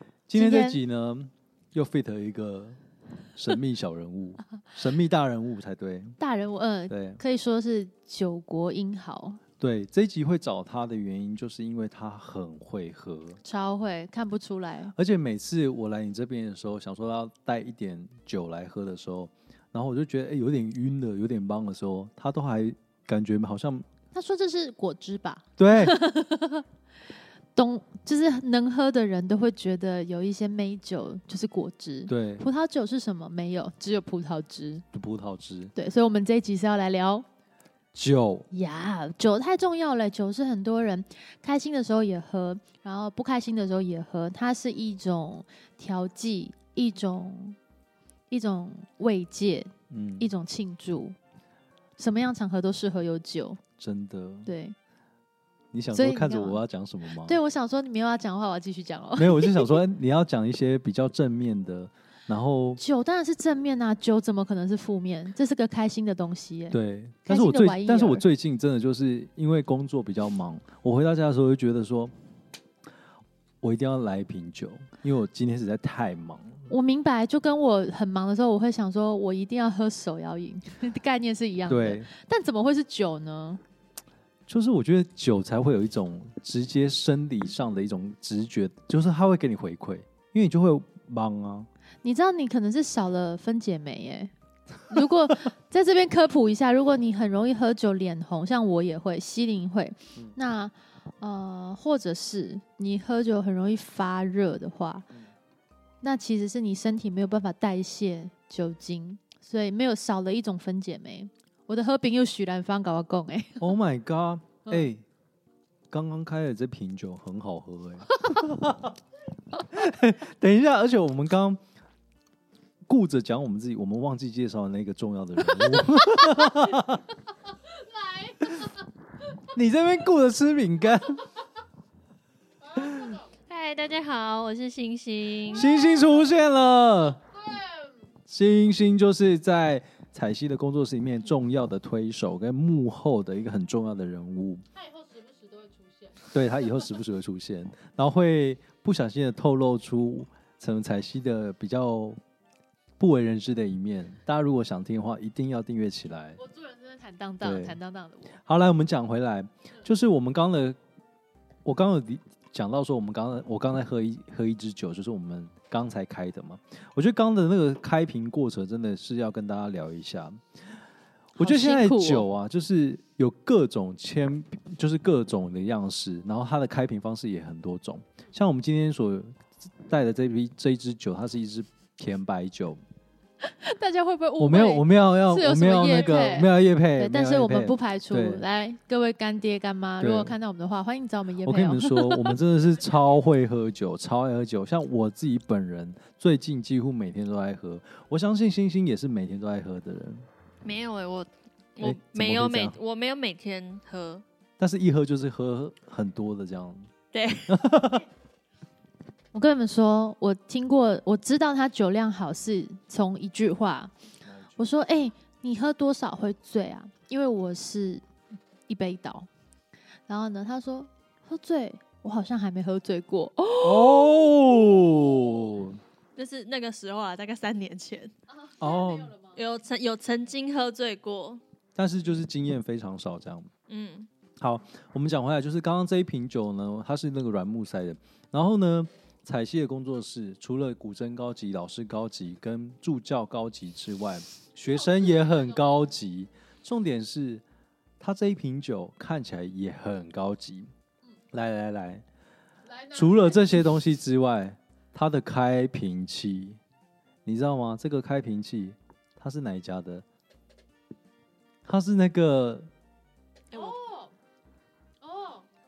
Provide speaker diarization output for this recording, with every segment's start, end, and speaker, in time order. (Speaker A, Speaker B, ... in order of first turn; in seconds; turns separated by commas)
Speaker A: 0.3-2.8, Speaker B: 0.3-0.8, Speaker A: 3.3-6.2, Speaker B: 6.2-9.4, Speaker A: 6.9-7.2, Speaker A: 9.6-13.4, Speaker B: 13.4-14.9, Speaker A: 14.9-23.9, Speaker B: 24.1-26.6, Speaker A: 25.6-26.0, Speaker B: 27.5-34.8, Speaker A: 32.1-32.5, Speaker A: 34.9-35.7, Speaker B: 35.7-37.2, Speaker A: 37.9-38.5, Speaker B: 38.5-47.6, Speaker B: 48.3-51.1, Speaker A: 49.9-50.3, Speaker B: 52.0-53.6, Speaker A: 53.8-54.5, Speaker B: 54.5-54.8, Speaker A: 55.7-57.4, Speaker B: 55.9-56.6, Speaker B: 57.2-59.8, Speaker A: 59.2-62.8, Speaker B: 62.8-68.2, Speaker A: 66.7-72.1, Speaker A: 73.6-76.7, Speaker B: 76.7-83.6, Speaker A: 81.7-82.1, Speaker A: 84.5-91.7, Speaker B: 92.0-94.3, Speaker B: 94.9-105.1, Speaker B: 106.0-113.7, Speaker A: 113.6-115.0, Speaker A: 115.9-119.0, Speaker A: 119.5-121.6, Speaker A: 122.8-127.0, Speaker B: 127.8-128.7, Speaker A: 129.4-131.2, Speaker A: 132.8-133.2, Speaker C: 133.5-135.7, Speaker A: 135.5-137.2, Speaker B: 135.7-136.0, Speaker B: 137.5-137.9, Speaker A: 138.3-144.6, Speaker B: 144.7-146.3, Speaker A: 146.3-152.2, Speaker A: 153.0-156.4, Speaker B: 156.4-158.3, Speaker A: 157.4-157.8, Speaker A: 158.4-160.8, Speaker A: 161.6-170.4, Speaker B: 171.4-172.3, Speaker A: 171.4-182.8, Speaker B: 183.4-192.4, Speaker A: 184.4-188.4, Speaker A: 190.0-190.3, Speaker A: 191.4-200.2, Speaker C: 200.6-204.2, Speaker A: 201.8-202.8, Speaker A: 204.6-206.9, Speaker C: 207.1-207.6, Speaker A: 207.5-208.1, Speaker B: 209.3-213.9, Speaker B: 214.6-218.0, Speaker B: 218.7-219.3, Speaker B: 220.1-225.3, Speaker A: 223.6-225.8, Speaker C: 226.2-228.1, Speaker B: 228.3-229.4, Speaker A: 228.6-229.1, Speaker C: 229.3-231.4, Speaker A: 231.8-233.5, Speaker C: 233.7-234.1, Speaker A: 234.4-247.4, Speaker B: 244.7-245.6, Speaker A: 248.0-250.7, Speaker A: 251.3-252.0, Speaker B: 252.7-253.7, Speaker A: 252.9-256.6, Speaker A: 257.2-260.0, Speaker A: 261.6-262.7, Speaker B: 263.5-264.1, Speaker B: 265.0-265.4